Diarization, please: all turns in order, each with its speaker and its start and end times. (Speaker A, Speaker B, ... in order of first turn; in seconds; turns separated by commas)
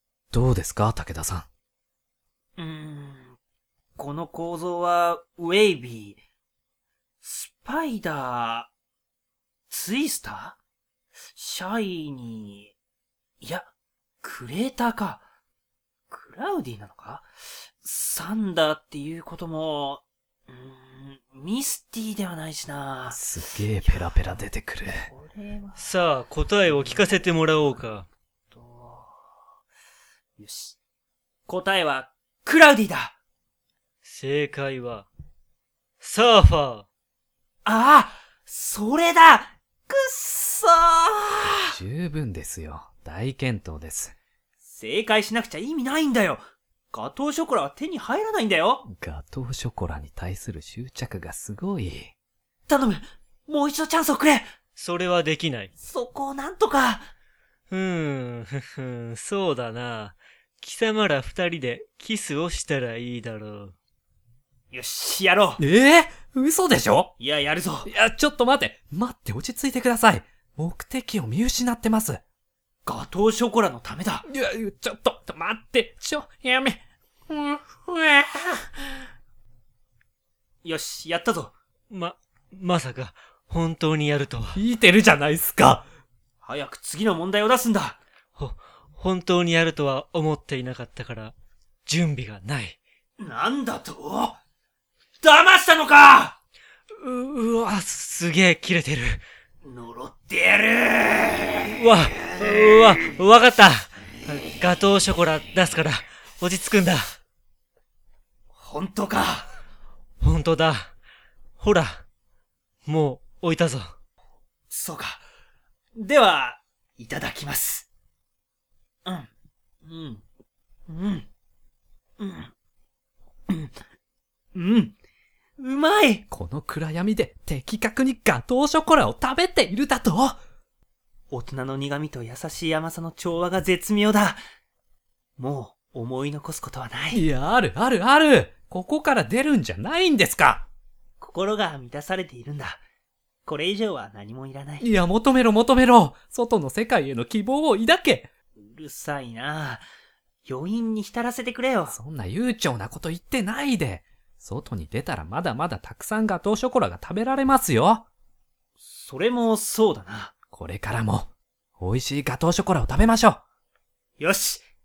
Speaker A: 0.3-1.5, Speaker B: 2.6-3.4, Speaker B: 4.0-6.2, Speaker B: 7.2-8.7, Speaker B: 9.7-10.6, Speaker B: 11.3-12.8, Speaker B: 13.4-13.7, Speaker B: 14.2-15.2, Speaker B: 16.1-17.3, Speaker B: 17.8-23.2, Speaker A: 23.1-25.1, Speaker B: 23.8-24.4, Speaker B: 25.1-26.0, Speaker C: 25.8-28.1, Speaker B: 26.7-27.1, Speaker B: 28.5-29.2, Speaker B: 30.4-30.8, Speaker B: 31.5-33.2, Speaker C: 34.0-35.1, Speaker C: 36.0-36.9, Speaker B: 37.6-41.8, Speaker A: 41.5-44.2, Speaker B: 44.6-48.9, Speaker A: 48.9-52.1, Speaker B: 52.7-54.5, Speaker C: 54.8-55.7, Speaker B: 55.8-57.1, Speaker C: 57.7-63.7, Speaker B: 64.7-65.6, Speaker A: 65.6-67.2, Speaker B: 67.2-67.9, Speaker A: 67.8-72.2, Speaker B: 72.8-74.2, Speaker A: 74.3-78.6, Speaker B: 80.6-81.5, Speaker C: 81.9-84.6, Speaker A: 84.5-85.9, Speaker B: 86.4-88.0, Speaker C: 88.4-91.3, Speaker C: 91.9-92.8, Speaker B: 93.2-94.4, Speaker B: 95.2-96.4, Speaker C: 96.9-99.2, Speaker B: 99.6-101.7, Speaker C: 101.7-107.2, Speaker B: 108.5-109.5, Speaker C: 110.2-110.9, Speaker C: 111.6-112.0, Speaker C: 112.8-113.9, Speaker B: 114.7-115.2, Speaker B: 116.0-117.9, Speaker B: 119.8-120.2, Speaker B: 120.9-121.3, Speaker B: 122.2-122.5, Speaker B: 123.5-123.8, Speaker B: 124.5-125.0, Speaker B: 125.6-126.3, Speaker A: 126.3-130.4, Speaker B: 131.3-134.4, Speaker B: 135.4-137.2, Speaker A: 137.1-140.7, Speaker B: 141.2-142.8, Speaker B: 143.5-144.9, Speaker A: 144.8-148.3, Speaker B: 148.6-149.8, Speaker B: 150.4-151.9, Speaker A: 151.9-158.1, Speaker B: 158.8-160.3, Speaker A: 160.5-163.4, Speaker B: 164.2-164.6